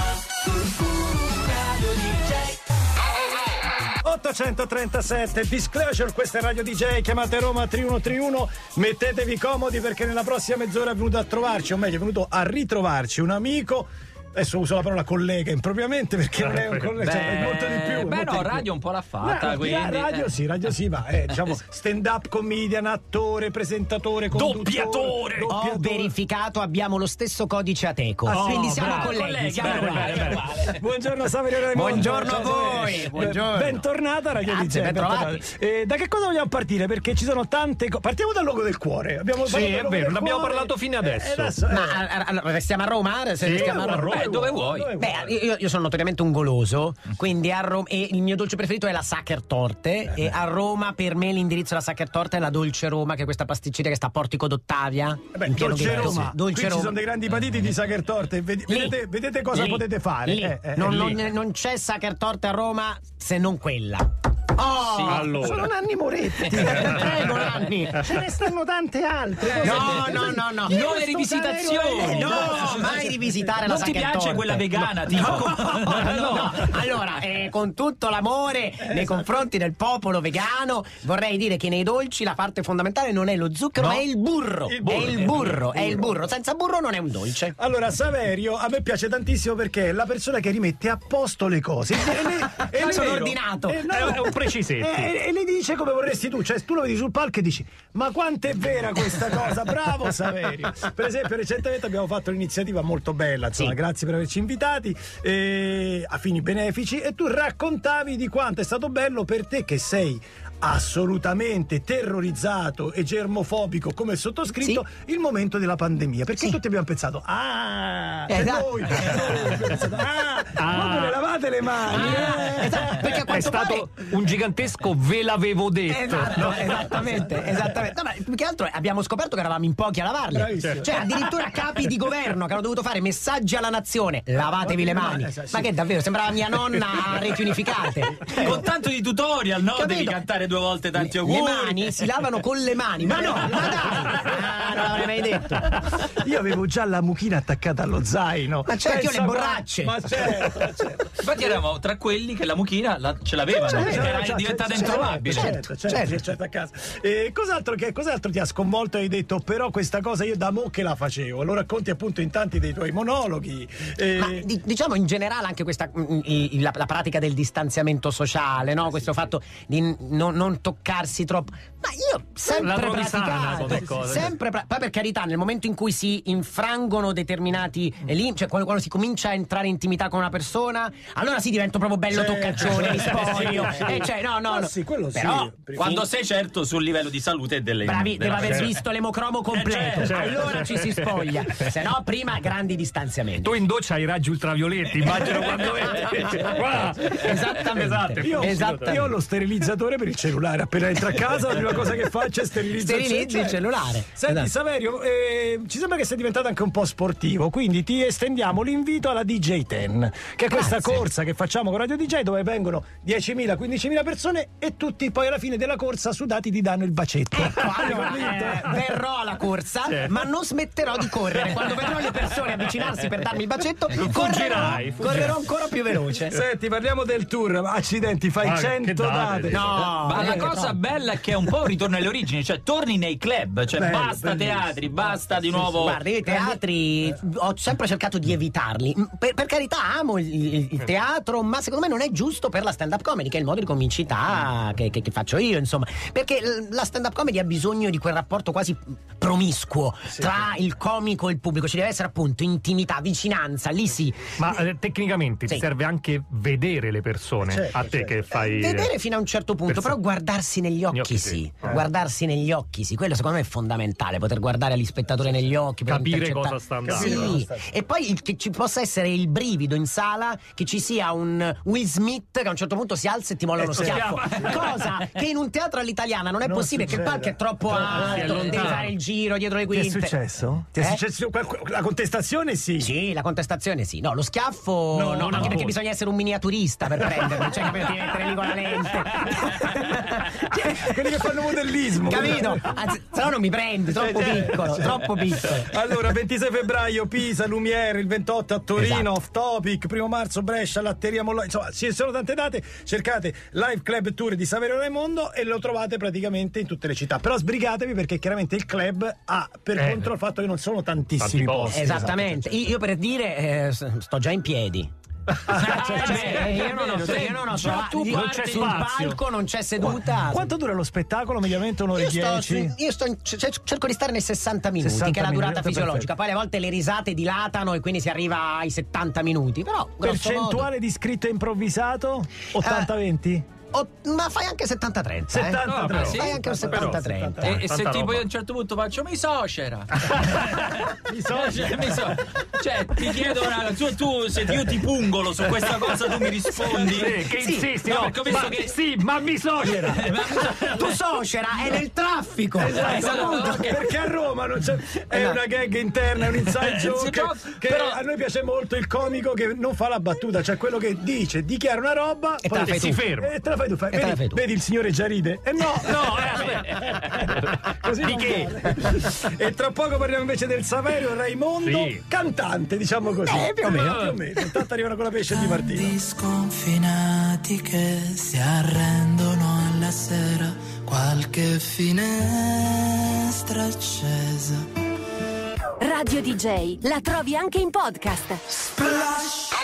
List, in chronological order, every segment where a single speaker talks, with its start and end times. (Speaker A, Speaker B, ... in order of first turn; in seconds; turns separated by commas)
Speaker A: 4.0-18.6, Speaker B: 16.4-17.0, Speaker C: 17.0-20.3, Speaker A: 19.2-26.1, Speaker B: 24.3-25.5, Speaker D: 25.5-30.3, Speaker B: 28.3-30.5, Speaker A: 28.3-28.8, Speaker C: 28.3-30.8, Speaker A: 30.8-42.0, Speaker D: 31.7-33.8, Speaker D: 34.4-35.4, Speaker B: 39.4-41.6, Speaker D: 41.7-44.3, Speaker B: 43.4-44.2, Speaker A: 43.4-45.4, Speaker C: 43.7-44.9, Speaker D: 45.0-57.0, Speaker A: 55.3-61.2, Speaker D: 58.7-59.0, Speaker D: 59.5-65.2, Speaker C: 64.8-65.6, Speaker A: 65.1-67.3, Speaker B: 65.2-65.6, Speaker D: 66.6-68.0, Speaker A: 68.0-73.5, Speaker C: 69.4-73.0, Speaker D: 69.6-87.5, Speaker C: 73.6-76.7, Speaker A: 75.1-76.7, Speaker A: 78.8-79.3, Speaker A: 84.7-86.3, Speaker B: 84.8-85.5, Speaker A: 87.6-123.6, Speaker D: 92.6-93.8, Speaker B: 93.8-95.1, Speaker D: 118.3-119.4, Speaker B: 120.6-121.2, Speaker D: 122.0-123.9, Speaker B: 123.2-126.8, Speaker D: 125.9-138.6, Speaker A: 126.4-127.7, Speaker A: 130.3-131.6, Speaker A: 134.4-135.7, Speaker A: 136.5-138.7, Speaker C: 138.4-142.1, Speaker D: 139.8-140.2, Speaker D: 140.9-145.7, Speaker A: 143.0-144.9, Speaker A: 145.7-151.5, Speaker D: 148.7-149.9, Speaker C: 151.2-155.5, Speaker D: 153.6-154.1, Speaker A: 153.6-164.5, Speaker D: 154.7-156.2, Speaker D: 164.2-185.5, Speaker B: 172.5-174.3, Speaker A: 173.7-174.2, Speaker A: 182.1-186.1, Speaker C: 185.8-188.8, Speaker D: 187.8-193.6, Speaker B: 188.4-188.7, Speaker C: 189.5-190.4, Speaker B: 190.0-191.2, Speaker B: 193.4-199.1, Speaker D: 197.1-199.1, Speaker A: 198.2-218.8, Speaker D: 202.7-204.1, Speaker D: 210.5-211.0, Speaker D: 217.3-226.3, Speaker B: 218.2-218.5, Speaker B: 219.9-220.2, Speaker B: 223.9-225.4, Speaker A: 224.2-225.3, Speaker A: 226.3-230.6, Speaker B: 228.4-229.8, Speaker C: 229.5-236.0, Speaker D: 229.6-230.8, Speaker A: 233.7-236.6, Speaker D: 235.7-254.6, Speaker A: 250.1-250.5, Speaker B: 254.4-258.9, Speaker A: 257.4-258.1, Speaker D: 258.3-280.1, Speaker B: 259.7-260.0, Speaker B: 260.9-261.8, Speaker B: 265.9-267.3, Speaker A: 266.8-267.7, Speaker A: 273.6-274.7, Speaker B: 273.8-274.5, Speaker A: 276.4-278.8, Speaker B: 277.7-278.9, Speaker A: 279.7-282.9, Speaker D: 282.8-290.8, Speaker A: 284.9-285.7, Speaker B: 285.1-285.8, Speaker A: 287.0-288.0, Speaker A: 290.6-292.7, Speaker D: 292.1-295.6, Speaker A: 294.0-312.5, Speaker D: 298.8-299.1, Speaker B: 309.7-310.1, Speaker B: 311.2-312.3, Speaker D: 311.7-314.9, Speaker A: 315.5-316.6, Speaker C: 315.5-318.8, Speaker B: 316.0-319.2, Speaker D: 316.1-320.5, Speaker A: 319.8-322.8, Speaker D: 321.9-330.7, Speaker A: 324.8-326.1, Speaker A: 330.0-333.5, Speaker D: 332.6-332.9, Speaker D: 333.7-335.6, Speaker A: 335.3-337.4, Speaker C: 335.6-336.4, Speaker B: 335.8-338.2, Speaker D: 336.1-337.6, Speaker C: 337.4-347.3, Speaker A: 341.1-342.1, Speaker B: 346.8-350.1, Speaker D: 347.4-347.7, Speaker C: 347.8-348.7, Speaker C: 349.6-350.9, Speaker D: 350.8-353.3, Speaker A: 352.6-375.9, Speaker C: 352.7-353.9, Speaker D: 355.1-355.4, Speaker C: 356.4-357.9, Speaker D: 362.4-363.0, Speaker B: 362.6-363.3, Speaker D: 363.9-364.4, Speaker B: 365.8-368.6, Speaker B: 371.6-372.0, Speaker D: 373.2-373.9, Speaker B: 373.7-374.1, Speaker E: 375.3-384.6, Speaker F: 385.8-388.4, Speaker A: 388.8-389.4